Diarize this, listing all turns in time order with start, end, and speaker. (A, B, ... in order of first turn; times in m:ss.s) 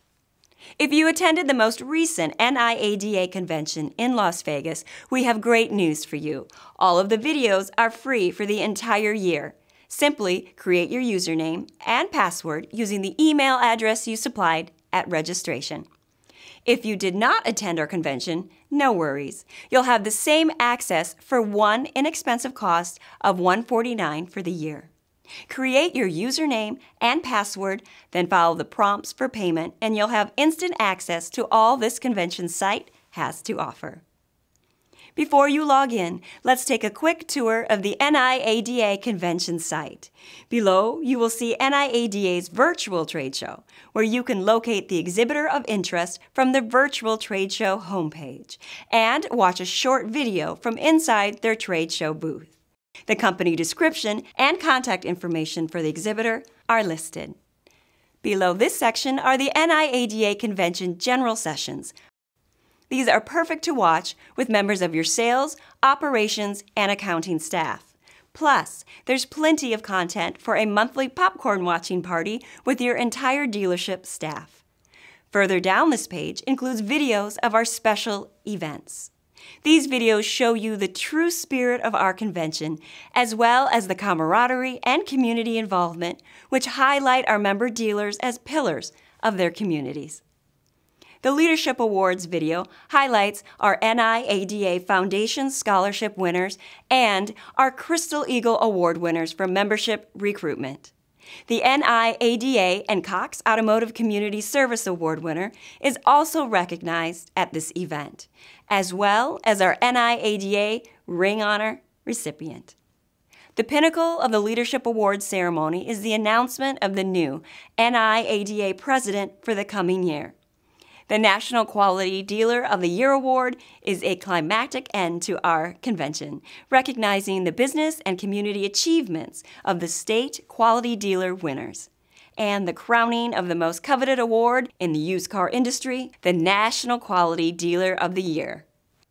0:00.8-0:15.9 A
0:16.7-0:24.9 A
0:25.5-0:34.0 A
0:35.2-0:52.6 A
0:53.1-0:57.4 A
0:58.2-1:01.9 A
1:02.9-1:14.6 A
1:15.3-1:19.1 A
1:19.6-1:30.2 A
1:31.2-1:40.9 A
1:41.5-1:52.8 A
1:53.6-2:00.4 A
2:01.1-2:18.6 A